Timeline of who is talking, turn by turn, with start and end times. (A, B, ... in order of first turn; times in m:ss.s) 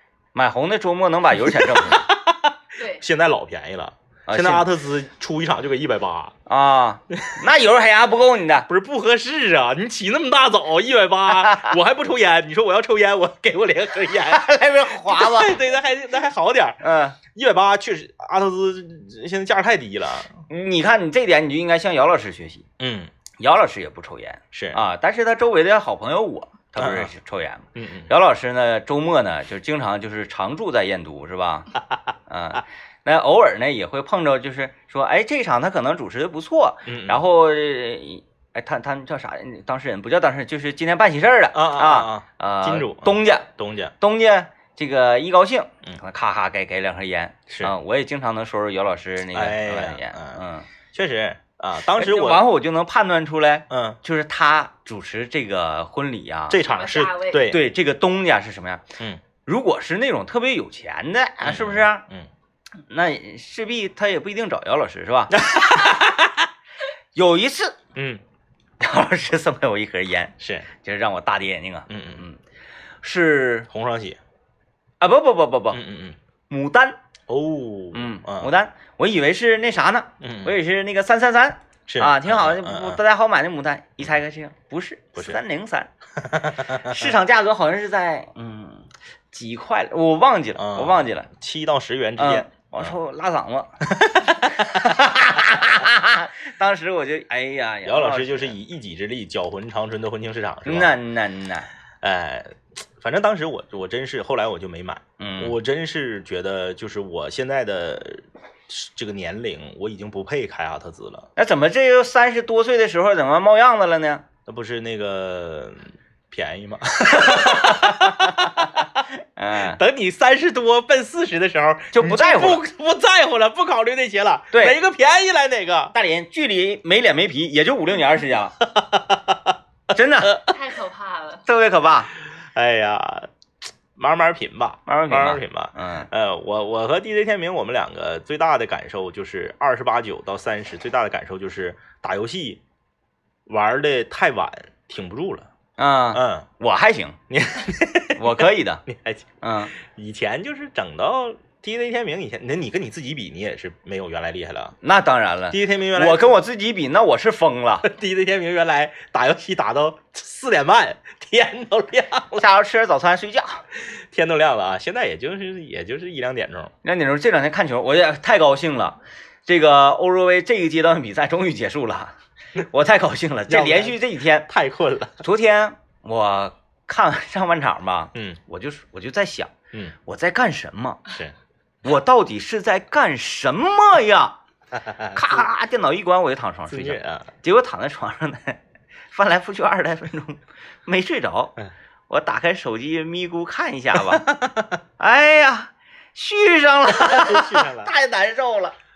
0:00.4-0:02.1 A
0:01.4-0:06.3 B
0:02.8-0:03.0 C
0:04.3-0:04.7 A
0:06.5-0:08.7 A
0:07.1-0:07.4 B
0:08.7-0:20.3 B
0:11.4-0:11.7 A
0:14.2-0:15.6 A
0:16.8-0:17.2 A
0:20.5-0:22.7 A
0:22.8-0:23.1 B
0:23.4-0:31.7 A
0:24.5-0:24.8 B
0:26.8-0:27.1 B
0:27.8-0:28.1 B
0:32.3-0:50.6 A
0:36.9-0:37.2 B
0:41.5-0:43.9 B
0:49.3-0:50.4 B
0:50.9-0:52.4 B
0:52.0-0:56.6 A
0:53.7-0:54.0 B
0:56.5-0:57.6 B
0:56.6-0:57.5 C
0:57.5-0:58.8 A
0:59.4-1:02.0 A
1:01.4-1:02.3 B
1:02.9-1:05.4 A
1:05.3-1:06.5 B
1:07.1-1:07.8 A
1:08.0-1:08.2 B
1:08.8-1:12.4 A
1:10.4-1:10.7 B
1:11.9-1:12.2 B
1:13.0-1:13.7 A
1:13.7-1:14.2 B
1:15.0-1:15.8 A
1:15.7-1:16.2 B
1:16.5-1:17.0 A
1:17.3-1:18.5 B
1:17.9-1:25.9 A
1:20.2-1:20.5 B
1:21.9-1:23.0 B
1:26.2-1:27.1 B
1:26.8-1:31.3 A
1:30.6-1:32.9 B
1:32.2-1:33.8 A
1:33.9-1:34.7 B
1:34.3-1:38.5 A
1:37.8-1:41.0 B
1:40.6-1:41.7 A
1:42.0-1:51.3 B
1:45.2-1:45.5 A
1:51.4-1:54.2 A
1:54.5-1:58.8 B
1:57.1-1:58.6 A
1:59.4-1:59.8 A
1:59.7-2:05.9 B
2:01.9-2:02.6 A
2:05.9-2:08.5 A
2:08.6-2:09.6 B
2:09.9-2:10.4 A
2:10.4-2:11.4 C
2:11.5-2:12.1 A
2:12.5-2:13.3 B
2:14.0-2:22.6 B
2:14.9-2:16.1 A
2:23.5-2:25.5 B
2:25.8-2:27.2 A
2:26.1-2:26.5 B
2:27.3-2:34.8 B
2:28.2-2:28.8 A
2:29.4-2:29.7 A
2:34.8-2:37.9 A
2:35.5-2:36.4 B
2:37.8-2:42.5 B
2:42.4-2:43.6 A
2:43.9-2:46.7 B
2:46.8-2:54.5 A
2:53.5-2:55.1 B
2:55.2-3:01.0 A
2:58.1-2:58.4 B
3:01.1-3:01.3 B
3:01.8-3:04.4 A
3:04.7-3:05.4 B
3:05.1-3:08.6 A
3:06.7-3:07.3 B
3:09.1-3:11.5 A
3:12.1-3:14.3 A
3:14.0-3:14.8 B
3:15.0-3:18.8 A
3:16.9-3:17.9 B